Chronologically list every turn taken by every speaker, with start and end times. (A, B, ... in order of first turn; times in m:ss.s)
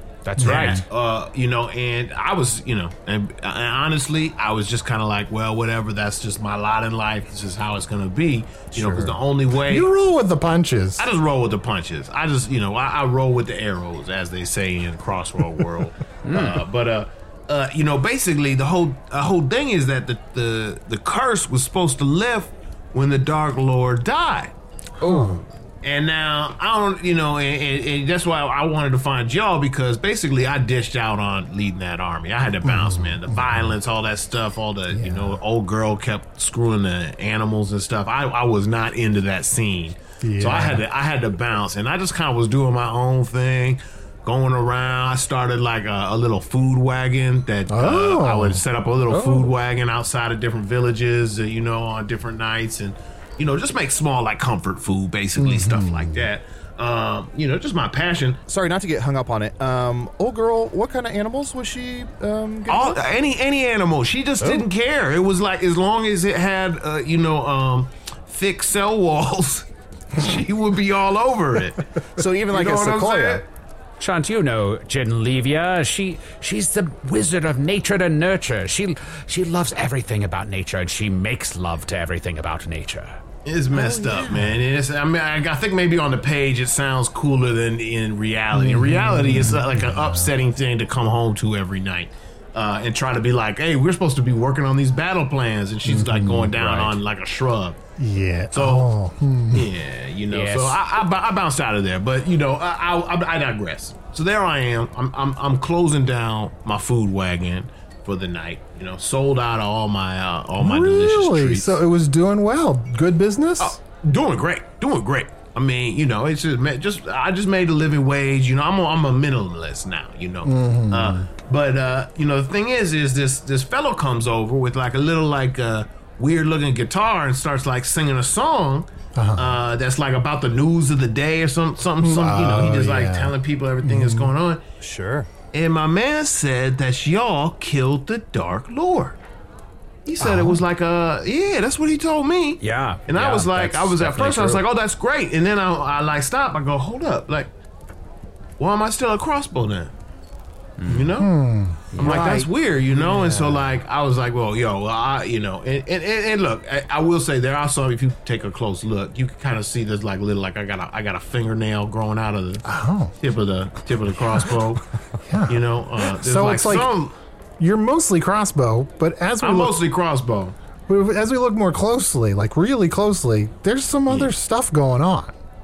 0:00.2-0:00.8 A
0:00.4-0:00.8 B
0:00.4-0:09.9 C
0:09.6-0:11.1 B
0:11.0-0:24.5 C
0:16.2-0:16.6 A
0:25.0-0:25.3 A
0:25.0-0:25.4 B
0:25.1-0:58.4 C
0:32.6-0:33.7 B
0:34.9-0:35.4 B
0:40.2-0:40.8 B
0:47.7-0:48.6 B
0:49.1-0:49.4 A
0:55.4-0:56.3 B
0:58.5-1:03.0 D
1:02.7-1:11.8 C
1:12.2-1:13.4 D
1:12.5-1:13.4 C
1:14.0-1:23.2 A
1:23.4-1:37.8 C
1:23.7-1:24.6 B
1:28.5-1:30.3 B
1:35.8-1:36.8 B
1:38.0-1:39.7 B
1:38.5-1:38.9 C
1:39.5-1:51.8 C
1:40.3-1:40.8 A
1:50.6-1:53.8 B
1:53.6-2:14.6 C
2:00.4-2:01.3 B
2:09.1-2:09.6 B
2:12.0-2:14.3 B
2:14.8-2:15.3 D
2:15.5-2:19.2 C
2:20.0-2:27.5 C
2:20.2-2:20.6 B
2:22.6-2:24.6 A
2:28.6-2:29.9 C
2:30.8-2:31.1 A
2:30.9-2:31.3 C
2:31.2-2:32.0 B
2:32.0-2:42.7 C
2:32.0-2:33.7 D
2:42.6-2:43.1 B
2:43.2-2:44.8 C
2:45.2-2:46.9 B
2:45.5-2:47.1 C
2:47.6-2:49.8 B
2:49.4-2:50.6 C
2:50.9-2:55.4 B
2:54.1-2:54.3 C